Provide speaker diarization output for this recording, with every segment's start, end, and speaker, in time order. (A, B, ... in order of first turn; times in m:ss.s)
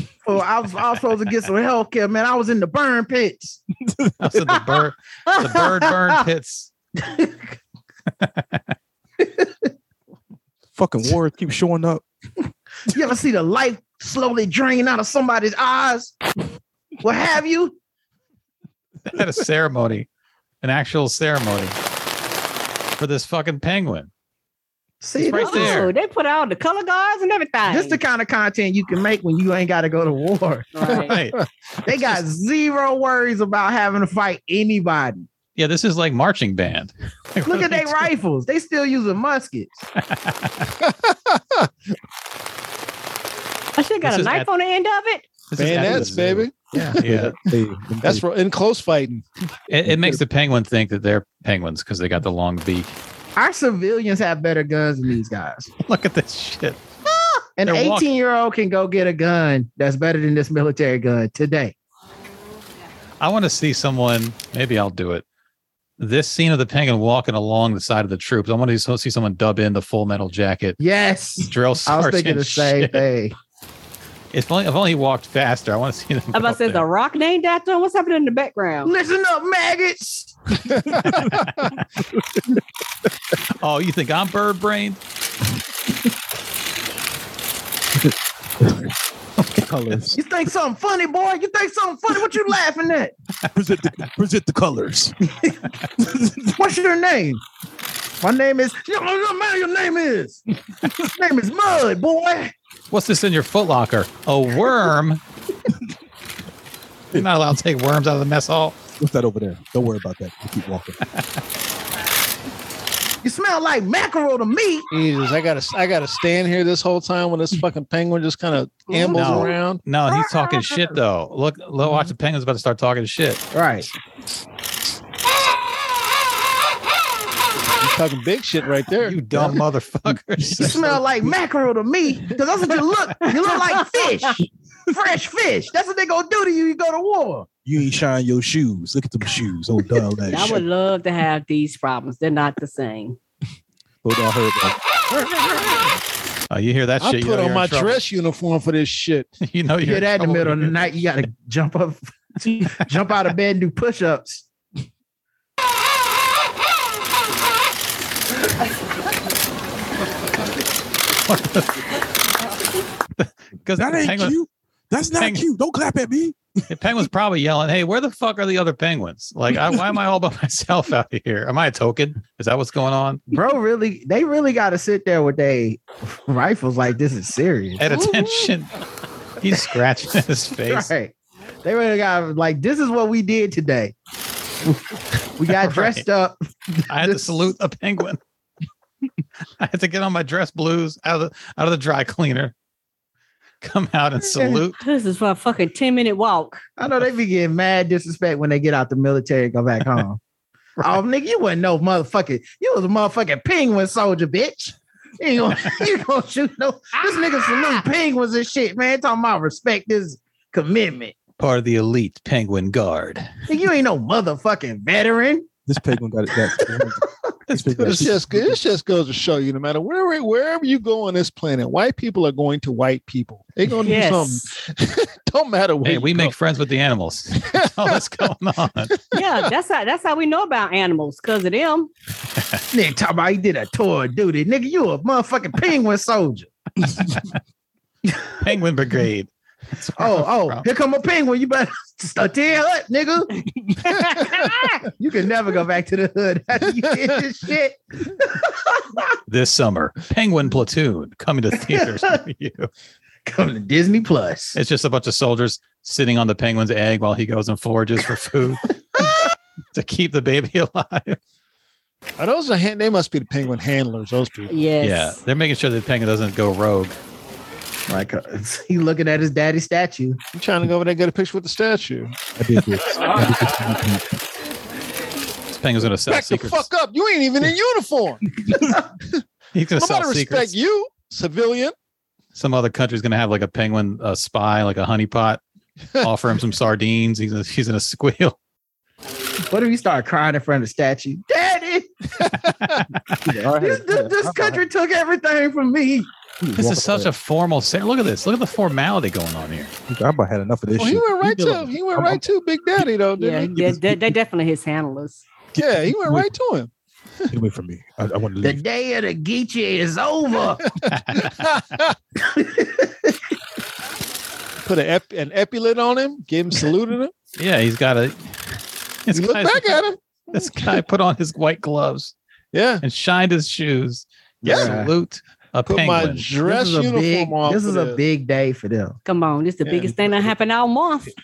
0:00.2-0:03.6 A
0:04.2-0:06.7 B
0:07.0-0:07.4 A
0:08.2-0:08.6 B
0:09.2-0:09.5 A
0:10.8-0:12.0 C
0:12.9-0:16.2 A
0:17.0-0:17.8 A
0:19.1-0:20.1 B
0:20.6-0:21.8 B
0:23.0-0:24.1 B
0:25.0-0:25.8 A
0:25.2-0:25.9 B
0:25.4-0:28.0 D
0:27.7-0:31.0 A
0:30.7-0:31.2 D
0:31.0-0:31.4 E
0:31.1-0:31.4 B
0:31.8-0:35.3 A
0:35.6-0:38.1 B
0:37.4-0:39.9 A
0:40.0-0:40.7 B
0:40.8-0:41.7 E
0:43.8-0:45.3 D
0:44.0-0:44.5 B
0:45.5-0:47.3 B
0:45.6-0:46.9 E
0:45.9-0:46.2 C
0:47.0-0:48.2 C
0:48.0-0:49.2 E
0:49.7-0:53.0 B
0:53.4-0:55.7 A
0:55.8-0:56.8 B
0:57.6-1:01.8 A
0:57.6-0:58.0 B
1:03.2-1:05.2 B
1:06.0-1:10.8 B
1:10.8-1:13.4 A
1:11.4-1:13.0 B
1:14.3-1:16.8 B
1:16.3-1:18.9 D
1:18.8-1:20.4 A
1:20.9-1:21.5 E
1:21.0-1:21.8 B
1:23.6-1:25.0 B
1:28.6-1:28.9 C
1:29.5-1:30.2 C
1:30.2-1:33.1 A
1:33.5-1:35.2 C
1:36.0-1:36.5 C
1:36.5-1:37.4 A
1:38.2-1:40.4 A
1:41.0-1:42.5 A
1:42.9-1:45.2 B
1:47.1-1:48.8 B
1:49.0-1:51.0 C
1:53.2-1:54.9 A
1:54.9-1:59.8 E
1:58.9-1:59.6 D
1:59.1-2:03.4 B
2:03.5-2:03.9 A
2:07.8-2:09.6 E
2:09.0-2:11.0 B
2:10.6-2:17.5 A
2:13.2-2:14.3 D
2:17.6-2:20.6 C
2:20.3-2:23.2 D
2:24.0-2:24.8 C
2:26.5-2:28.0 B
2:27.0-2:29.3 E
2:29.4-2:31.0 B
2:29.8-2:34.5 A
2:41.3-2:41.9 B
2:43.2-2:44.4 B
2:43.8-2:46.4 C
2:45.2-2:45.4 B
2:46.7-2:53.2 B
2:53.3-2:57.8 A
2:57.8-2:58.7 B
2:57.9-2:58.5 D
2:59.4-3:00.9 B
3:00.6-3:01.1 A
3:01.6-3:03.9 A
3:05.4-3:07.5 A
3:05.5-3:06.0 B
3:06.9-3:08.2 B
3:09.6-3:12.5 B
3:13.6-3:14.8 B
3:14.3-3:14.6 A
3:14.8-3:16.6 D
3:16.8-3:20.2 A
3:20.8-3:31.2 A
3:31.4-3:33.3 B
3:33.5-3:35.5 A
3:35.7-3:38.6 C
3:37.5-3:38.1 B
3:37.8-3:46.3 E
3:43.8-3:44.5 D
3:45.8-3:49.0 B
3:47.4-3:48.0 E
3:49.1-3:51.9 D
3:52.7-3:56.5 A
3:57.0-3:57.3 B
3:58.4-4:00.6 B
4:00.0-4:03.3 A
4:03.9-4:04.4 E
4:04.3-4:09.1 A
4:09.3-4:12.7 B
4:11.6-4:12.2 A
4:13.3-4:14.6 A
4:14.6-4:19.2 B
4:19.7-4:21.2 B
4:22.2-4:24.5 E
4:24.5-4:25.2 D
4:24.8-4:27.0 B
4:27.9-4:30.2 A
4:30.4-4:32.2 E
4:32.4-4:34.0 C
4:35.5-4:36.7 B
4:36.1-4:38.2 E
4:39.5-4:40.6 B
4:39.8-4:41.7 E
4:42.4-4:45.4 B
4:46.0-4:48.4 B
4:49.5-4:51.9 A
4:52.2-4:52.8 E
4:52.6-4:53.0 B
4:53.2-4:54.6 C
4:53.5-4:56.1 A
4:56.4-4:57.1 C
4:56.6-4:59.7 B
4:59.9-5:02.2 C
5:00.8-5:03.4 E
5:03.2-5:05.3 D
5:03.6-5:04.2 C
5:05.6-5:06.3 C
5:05.6-5:06.7 E
5:07.3-5:08.6 C
5:08.4-5:10.7 A
5:10.9-5:11.5 B
5:11.3-5:11.9 E
5:12.2-5:13.2 A
5:14.6-5:17.1 E
5:17.4-5:22.1 B
5:19.1-5:20.8 E
5:22.5-5:22.8 E
5:22.8-5:26.3 B
5:24.4-5:24.9 A
5:25.7-5:28.0 E
5:26.4-5:29.0 A
5:29.0-5:31.1 D
5:29.6-5:30.3 E